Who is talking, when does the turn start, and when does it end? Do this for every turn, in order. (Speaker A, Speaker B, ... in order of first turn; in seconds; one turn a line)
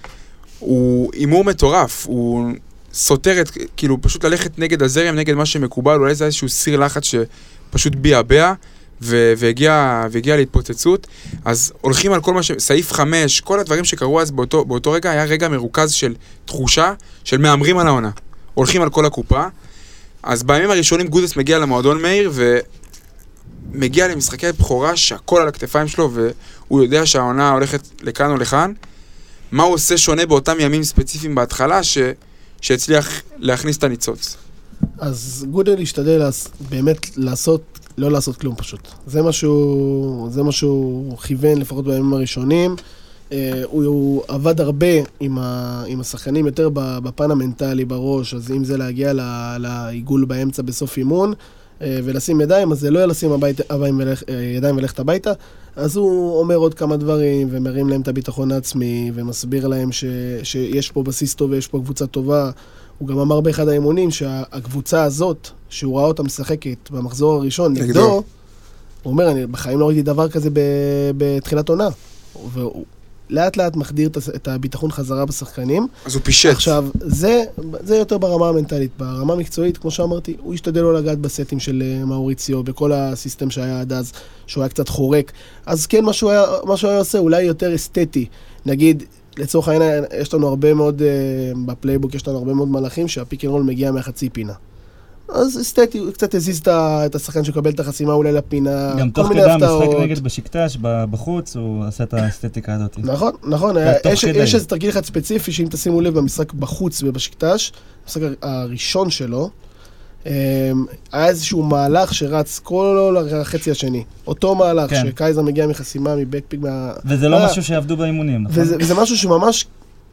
Speaker A: 0.6-19.5
Speaker A: 20.2-22.6
Speaker A: 23.7-28.7
Speaker A: 29.5-34.4
Speaker B: 35.0-42.8
Speaker B: 43.3-68.2
Speaker A: 67.8-68.2
Speaker B: 69.0-75.9
Speaker A: 76.0-76.8
Speaker B: 76.4-94.6
Speaker B: 95.3-100.2
Speaker C: 98.9-103.1
Speaker B: 103.0-109.5
Speaker C: 103.8-104.6
Speaker B: 110.2-117.6
Speaker C: 114.9-115.1
Speaker C: 117.0-118.8
Speaker B: 118.5-119.7